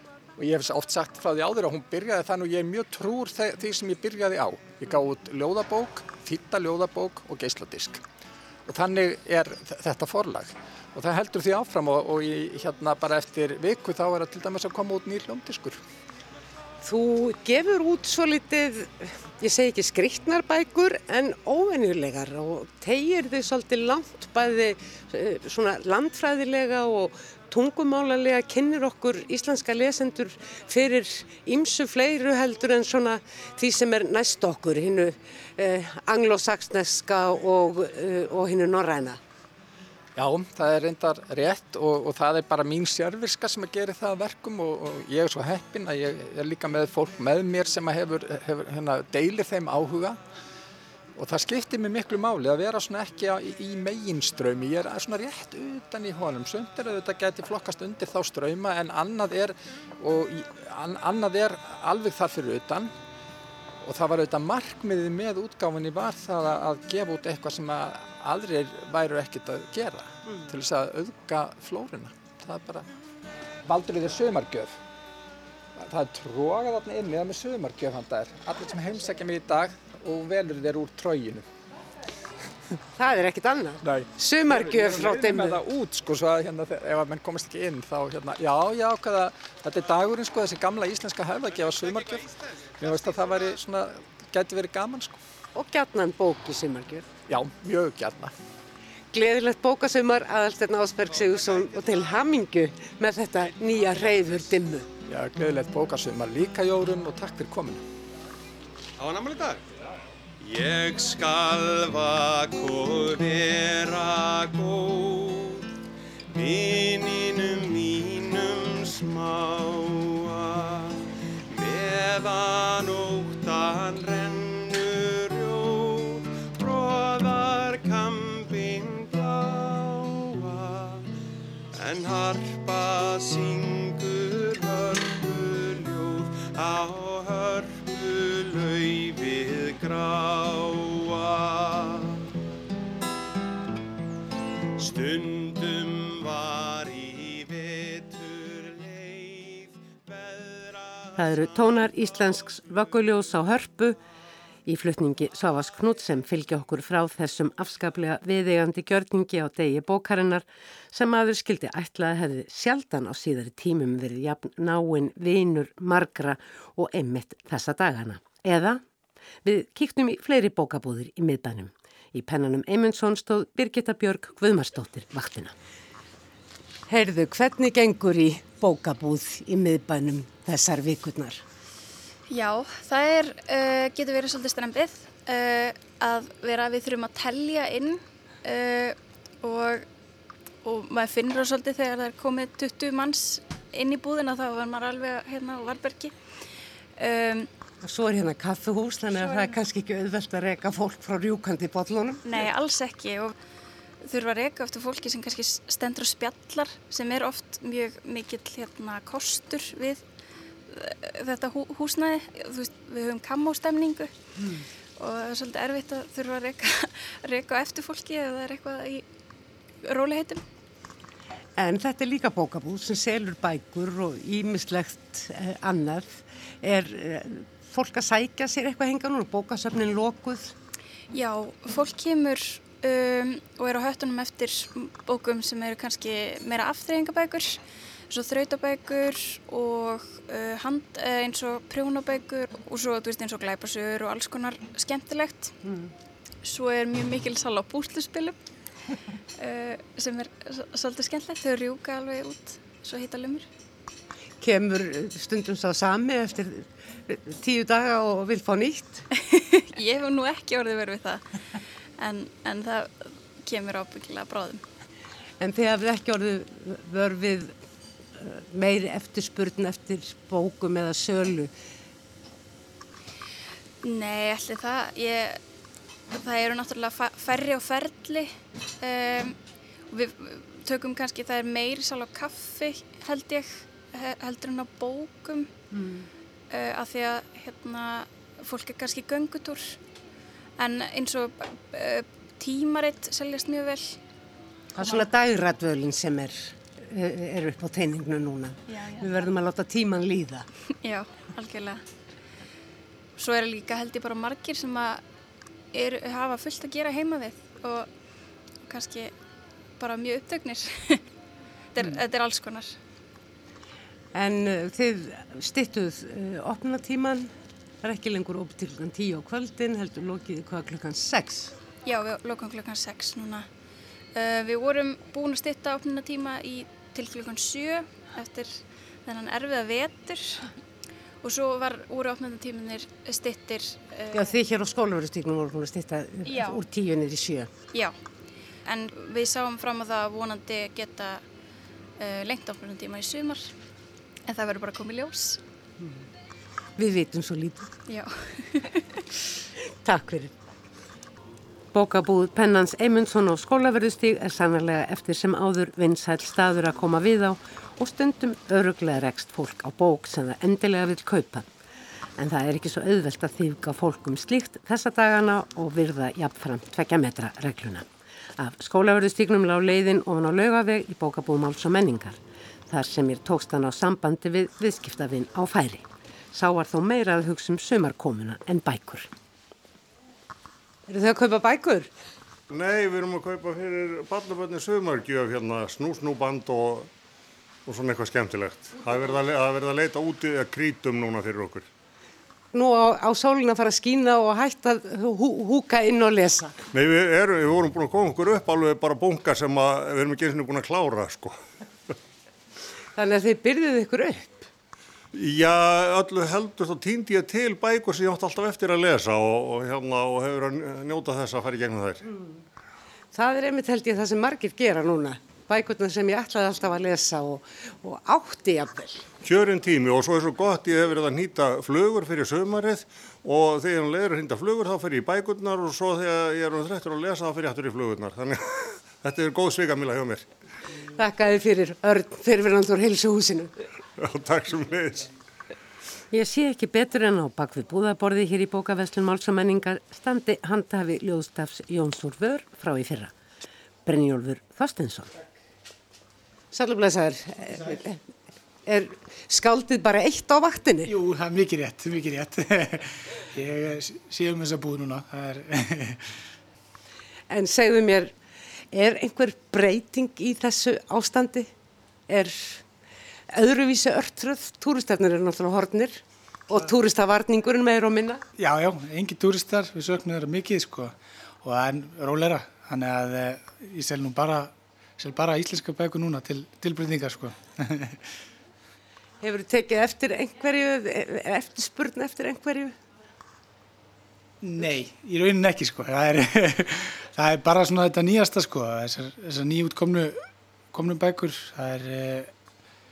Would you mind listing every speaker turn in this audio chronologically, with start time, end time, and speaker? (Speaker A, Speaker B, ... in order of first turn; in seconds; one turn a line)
Speaker A: 0.4-8.0
Speaker A: 8.7-15.8
Speaker B: 16.8-39.2
Speaker A: 40.2-50.2
Speaker A: 51.2-62.9
Speaker A: 63.8-72.9
Speaker A: 73.7-74.8
Speaker A: 75.8-81.5
Speaker B: 83.0-85.6
Speaker A: 83.8-95.2
Speaker B: 95.5-97.1
Speaker A: 97.3-98.3
Speaker B: 99.1-104.9
Speaker A: 105.1-107.8
Speaker C: 109.0-109.7
Speaker C: 110.4-115.6
Speaker C: 116.3-131.1
Speaker C: 131.8-142.2
Speaker C: 144.8-150.9
Speaker B: 151.2-154.0
Speaker B: 154.7-168.8
Speaker B: 169.4-175.5
Speaker B: 176.9-181.4
Speaker D: 182.3-189.9
Speaker D: 190.6-197.5
Speaker B: 197.8-202.5
Speaker D: 199.2-199.6
Speaker D: 202.2-203.3
Speaker D: 204.0-210.1
Speaker D: 210.7-214.1
Speaker B: 214.4-214.6
Speaker D: 215.0-219.1
Speaker D: 219.8-220.4
Speaker B: 221.6-230.6
Speaker D: 231.1-245.6
Speaker B: 245.6-245.9
Speaker D: 246.4-248.4
Speaker D: 249.4-253.5
Speaker B: 254.4-259.1
Speaker D: 259.2-264.6
Speaker B: 265.4-267.6
Speaker B: 268.2-271.5
Speaker D: 273.8-275.4
Speaker D: 276.1-279.4
Speaker D: 279.9-285.5
Speaker B: 285.7-286.1
Speaker D: 286.5-289.8
Speaker D: 290.6-294.0
Speaker B: 294.8-300.5
Speaker D: 294.8-295.1
Speaker D: 298.7-299.1
Speaker D: 300.8-301.8
Speaker D: 303.2-305.0
Speaker D: 305.7-307.9
Speaker D: 308.7-309.1
Speaker D: 309.8-311.0
Speaker D: 311.7-312.8
Speaker B: 314.1-321.5
Speaker D: 321.9-323.5
Speaker D: 324.1-330.5
Speaker D: 331.2-334.4
Speaker B: 334.1-337.5
Speaker D: 336.3-336.6
Speaker D: 338.6-341.2
Speaker D: 342.0-343.5
Speaker D: 344.3-345.4
Speaker B: 346.8-347.7
Speaker D: 347.9-349.0
Speaker B: 349.8-350.3
Speaker B: 351.7-361.5
Speaker B: 362.2-367.9
Speaker B: 368.4-379.1
Speaker B: 380.9-381.9
Speaker E: 382.5-386.9
Speaker E: 387.7-391.7
Speaker B: 392.5-396.6
Speaker E: 396.7-401.4
Speaker B: 402.9-404.5
Speaker E: 405.1-412.0
Speaker B: 413.1-419.1
Speaker E: 419.2-430.3
Speaker B: 431.0-433.5
Speaker E: 434.0-435.1
Speaker B: 436.1-443.1
Speaker B: 443.9-445.2
Speaker B: 446.5-448.0
Speaker B: 448.7-450.9
Speaker F: 450.9-456.1
Speaker B: 457.3-458.1
Speaker B: 458.7-461.5
Speaker B: 462.1-462.6
Speaker B: 463.3-468.2
Speaker F: 468.4-478.0
Speaker B: 479.2-482.8
Speaker F: 484.4-490.2
Speaker F: 490.7-492.3